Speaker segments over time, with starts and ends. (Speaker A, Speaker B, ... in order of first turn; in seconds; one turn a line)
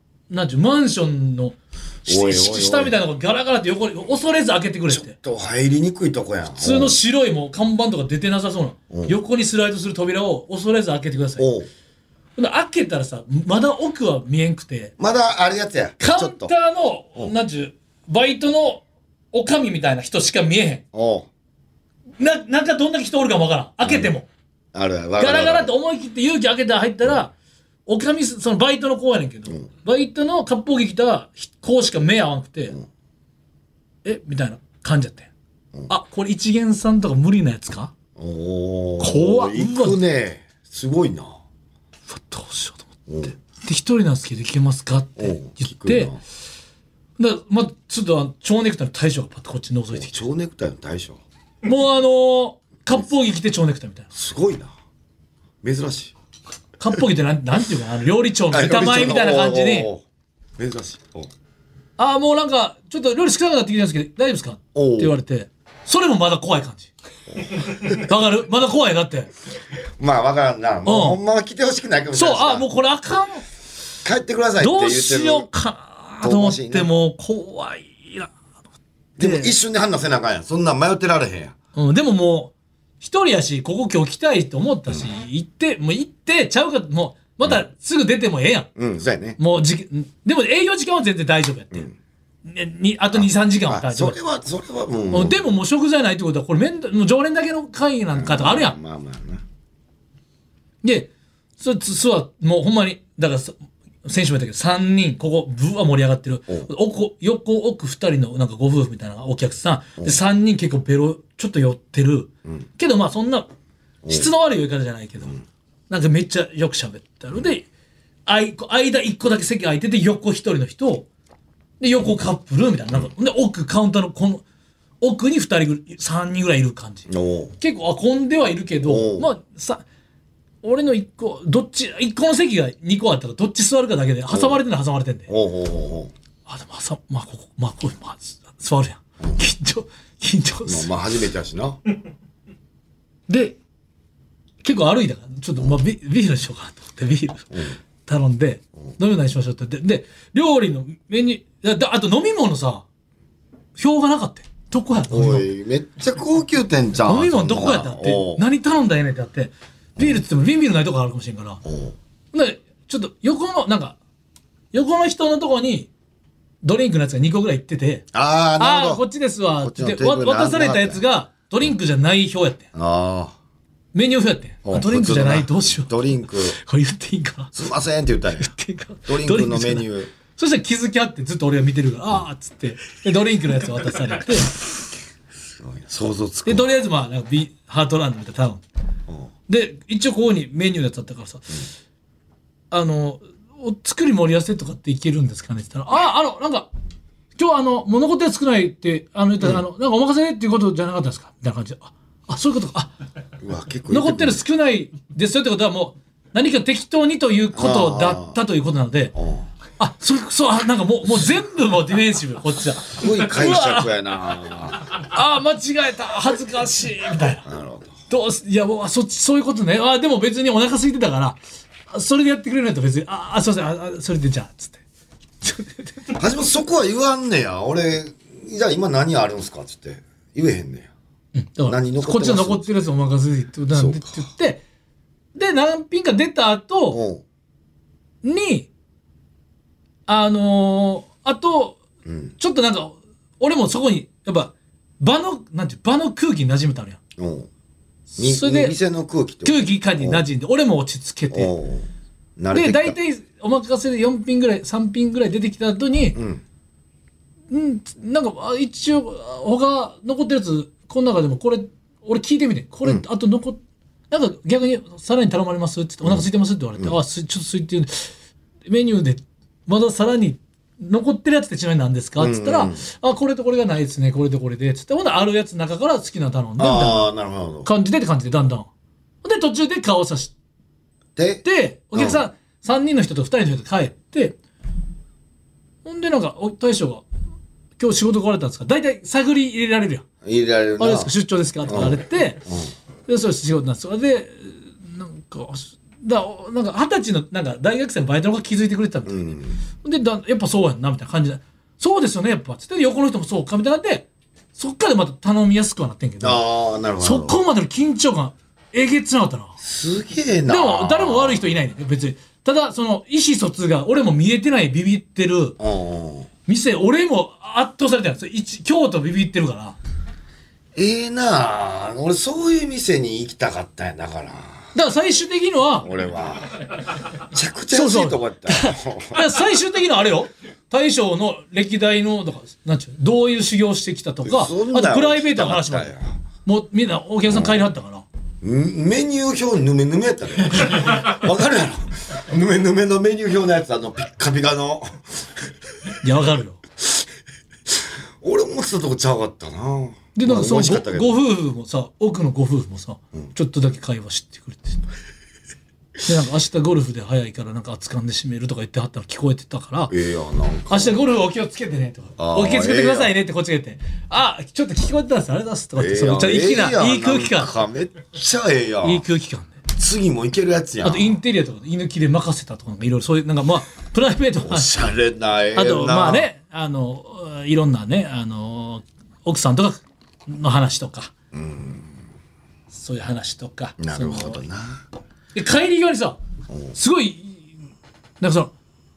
Speaker A: 0.3-5.2
Speaker B: 2.1-3.0
Speaker B: 4.9-7.0
Speaker A: 6.6-11.5
Speaker B: 8.9-9.2
Speaker B: 11.4-11.7
Speaker A: 12.4-14.9
Speaker B: 15.0-16.5
Speaker A: 16.0-20.8
Speaker B: 20.9-21.3
Speaker A: 22.2-24.3
Speaker B: 23.8-24.1
Speaker B: 24.7-25.7
Speaker A: 25.2-27.3
Speaker A: 27.9-32.8
Speaker A: 34.0-35.3
Speaker A: 35.9-37.9
Speaker B: 38.2-41.4
Speaker A: 39.0-40.0
Speaker A: 42.1-42.9
Speaker B: 43.1-43.3
Speaker A: 43.5-46.1
Speaker B: 45.2-46.2
Speaker A: 47.2-50.2
Speaker B: 49.9-51.2
Speaker A: 51.6-54.1
Speaker B: 54.1-54.7
Speaker B: 55.6-56.1
Speaker A: 56.8-59.9
Speaker B: 58.5-60.0
Speaker B: 60.6-61.3
Speaker A: 62.0-66.9
Speaker B: 64.8-65.2
Speaker B: 67.4-68.0
Speaker A: 67.9-69.3
Speaker B: 70.0-72.7
Speaker A: 70.8-71.2
Speaker A: 72.1-73.4
Speaker B: 74.0-75.5
Speaker A: 74.6-78.3
Speaker B: 76.2-76.9
Speaker B: 79.2-81.5
Speaker A: 79.2-79.5
Speaker A: 81.8-88.7
Speaker B: 88.8-89.4
Speaker A: 89.4-91.9
Speaker A: 92.5-94.2
Speaker B: 93.1-95.4
Speaker A: 95.1-98.8
Speaker B: 98.1-99.4
Speaker A: 100.8-113.5
Speaker A: 114.1-115.4
Speaker A: 115.9-117.7
Speaker A: 118.3-121.1
Speaker A: 121.8-124.4
Speaker A: 125.0-127.1
Speaker B: 127.1-127.5
Speaker A: 127.6-129.8
Speaker B: 128.8-129.3
Speaker A: 130.6-135.3
Speaker B: 134.3-134.6
Speaker B: 135.3-136.1
Speaker A: 136.5-140.9
Speaker B: 140.7-141.8
Speaker A: 143.3-143.6
Speaker A: 144.6-152.8
Speaker B: 147.5-147.8
Speaker A: 153.8-155.5
Speaker B: 155.1-158.4
Speaker A: 157.1-161.6
Speaker B: 161.7-161.9
Speaker A: 162.3-164.0
Speaker A: 164.7-165.9
Speaker A: 166.6-168.1
Speaker B: 168.1-169.1
Speaker A: 168.6-172.7
Speaker B: 169.6-171.0
Speaker B: 172.7-173.3
Speaker A: 173.9-177.5
Speaker B: 174.7-176.6
Speaker B: 177.5-178.5
Speaker A: 178.4-184.5
Speaker B: 179.1-180.1
Speaker B: 185.4-186.7
Speaker A: 186.5-188.6
Speaker A: 189.5-191.7
Speaker A: 192.7-196.7
Speaker A: 197.4-202.9
Speaker B: 203.4-204.4
Speaker A: 203.9-209.2
Speaker B: 207.5-208.4
Speaker B: 209.2-209.5
Speaker A: 209.8-213.9
Speaker B: 213.0-214.8
Speaker A: 214.9-217.5
Speaker B: 217.4-218.0
Speaker A: 218.1-224.8
Speaker A: 225.4-226.1
Speaker B: 226.2-230.9
Speaker A: 231.3-234.6
Speaker B: 231.7-232.7
Speaker B: 233.7-234.3
Speaker A: 235.3-237.0
Speaker B: 236.9-237.2
Speaker A: 238.2-238.7
Speaker A: 240.1-241.8
Speaker B: 242.1-242.3
Speaker A: 242.4-247.0
Speaker B: 247.2-247.5
Speaker A: 248.1-248.8
Speaker B: 248.2-250.2
Speaker A: 249.4-251.5
Speaker B: 251.3-253.0
Speaker A: 252.5-256.2
Speaker B: 256.1-256.4
Speaker A: 257.5-263.6
Speaker A: 264.1-268.1
Speaker A: 268.7-277.1
Speaker B: 272.2-272.8
Speaker B: 276.6-277.7
Speaker A: 277.6-278.7
Speaker A: 279.2-280.3
Speaker B: 281.2-282.2
Speaker A: 281.4-284.4
Speaker A: 285.9-287.0
Speaker A: 287.8-290.1
Speaker B: 290.2-291.1
Speaker A: 290.8-292.4
Speaker B: 291.7-292.7
Speaker A: 293.1-306.4
Speaker B: 299.1-299.6
Speaker B: 306.2-307.4
Speaker A: 307.0-309.6
Speaker B: 309.6-311.5
Speaker A: 310.5-315.6
Speaker B: 315.6-316.3
Speaker A: 316.5-319.8
Speaker B: 320.8-324.7
Speaker A: 324.7-325.9
Speaker B: 325.8-326.7
Speaker B: 327.2-329.2
Speaker A: 327.7-335.9
Speaker B: 334.2-336.2
Speaker A: 336.4-338.1
Speaker B: 337.3-337.6
Speaker B: 338.4-345.3
Speaker A: 346.0-346.6
Speaker B: 347.7-351.1
Speaker A: 350.1-354.8
Speaker A: 356.1-359.9
Speaker B: 359.9-361.0
Speaker A: 360.7-367.5
Speaker B: 362.2-363.1
Speaker B: 365.8-369.0
Speaker A: 368.8-369.6
Speaker B: 369.7-371.2
Speaker A: 370.8-374.9
Speaker B: 374.4-376.3
Speaker A: 375.6-381.1
Speaker B: 381.3-381.9
Speaker A: 382.7-384.4
Speaker B: 383.8-384.8
Speaker A: 385.4-386.2
Speaker B: 386.5-386.8
Speaker A: 386.7-387.5
Speaker A: 388.2-388.5